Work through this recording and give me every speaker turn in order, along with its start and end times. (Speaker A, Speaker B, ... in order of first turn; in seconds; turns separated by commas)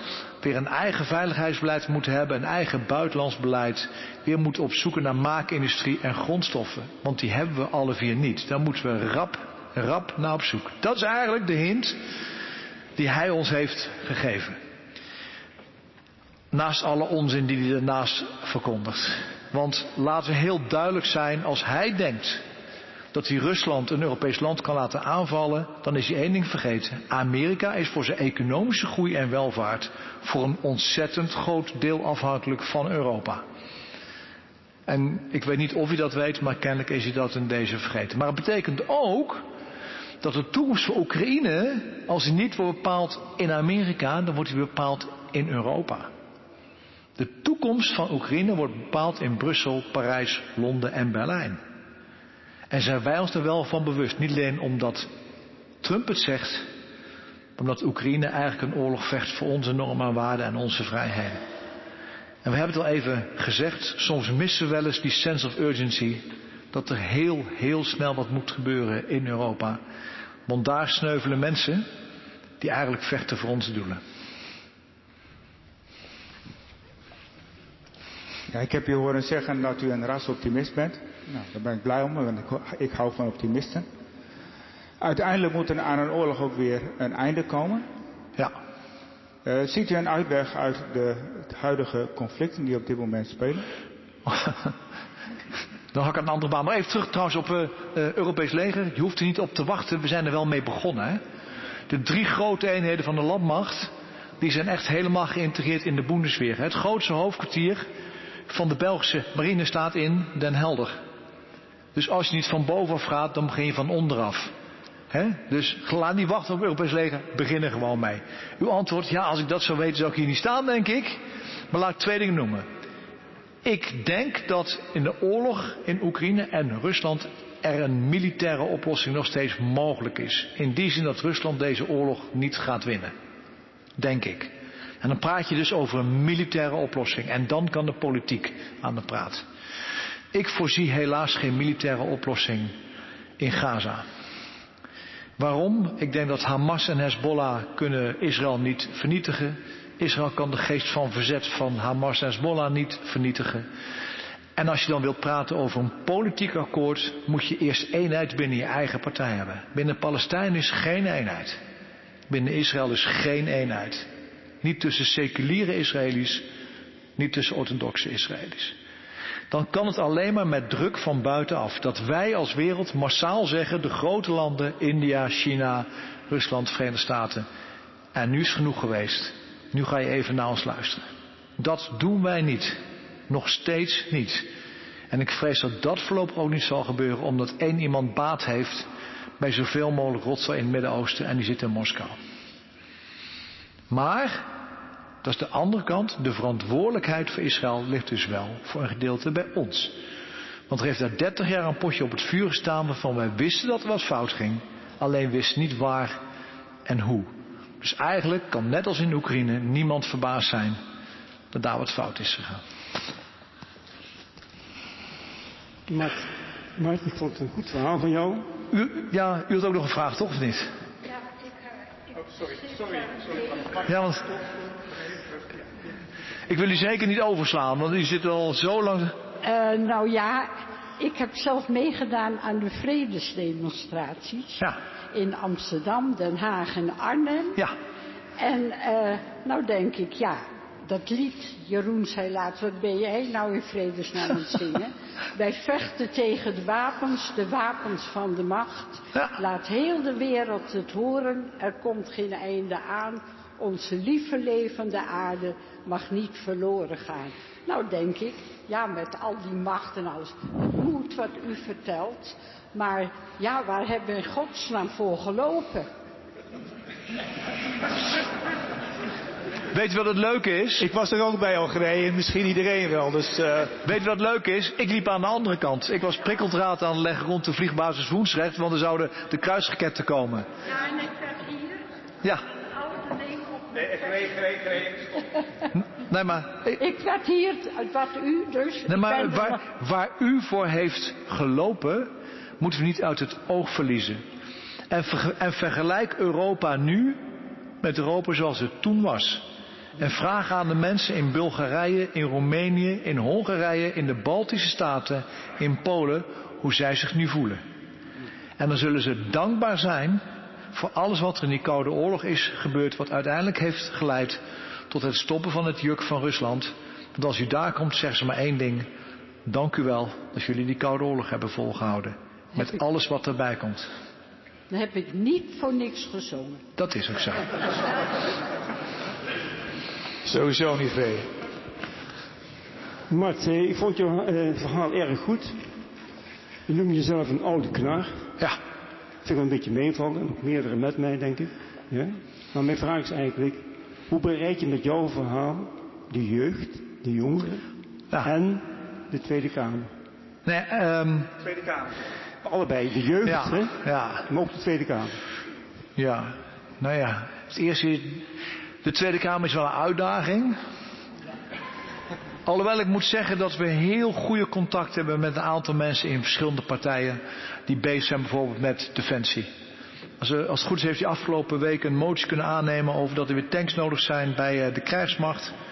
Speaker A: 0.4-12.0, Speaker A: 13.0-14.6, Speaker A: 16.5-22.4, Speaker A: 23.1-33.4, Speaker A: 34.9-39.5, Speaker A: 40.2-46.1, Speaker A: 47.2-51.6, Speaker A: 52.7-55.1, Speaker A: 55.8-56.7, Speaker A: 57.6-61.4, Speaker A: 62.4-69.8, Speaker A: 70.5-71.9, Speaker A: 72.6-74.0, Speaker B: 78.5-83.9, Speaker B: 85.0-87.9, Speaker B: 89.4-93.7, Speaker A: 94.3-94.7, Speaker A: 95.9-101.2, Speaker A: 101.9-107.9, Speaker A: 108.5-111.0, Speaker A: 112.0-114.5, Speaker A: 115.1-122.7, Speaker A: 123.6-133.1, Speaker A: 134.0-139.4, Speaker A: 140.3-142.8, Speaker A: 143.4-144.1, Speaker A: 145.4-153.7, Speaker A: 154.6-161.6, Speaker A: 162.3-164.1, Speaker A: 164.6-166.5, Speaker A: 167.2-168.8, Speaker A: 169.5-177.5, Speaker A: 178.1-181.1, Speaker A: 181.6-184.5, Speaker A: 185.1-188.9, Speaker A: 189.4-192.2, Speaker A: 193.9-194.5, Speaker A: 195.2-199.9, Speaker A: 200.7-206.2, Speaker A: 206.9-210.8, Speaker A: 211.5-212.6, Speaker C: 215.9-218.5, Speaker A: 218.7-220.7, Speaker D: 222.4-223.4, Speaker A: 223.8-224.3, Speaker A: 226.5-229.1, Speaker D: 229.4-237.6, Speaker D: 238.4-265.9, Speaker A: 269.7-270.9, Speaker E: 270.8-273.8, Speaker A: 273.9-280.5, Speaker D: 280.7-281.8, Speaker D: 282.8-284.9, Speaker A: 285.7-286.8, Speaker D: 286.8-289.6, Speaker A: 288.9-294.2, Speaker A: 294.9-297.2, Speaker A: 297.8-299.5, Speaker A: 300.0-307.6, Speaker A: 308.6-310.2, Speaker A: 310.7-318.9, Speaker A: 319.4-323.9, Speaker D: 324.7-326.6, Speaker A: 326.8-327.5, Speaker E: 330.2-331.3, Speaker C: 333.1-335.7, Speaker C: 336.7-338.2, Speaker C: 339.2-347.6, Speaker C: 348.2-349.9, Speaker A: 350.5-351.3, Speaker C: 352.4-355.2, Speaker A: 353.2-354.2, Speaker A: 356.0-358.2, Speaker A: 358.8-360.6, Speaker A: 362.5-369.5, Speaker A: 370.2-375.5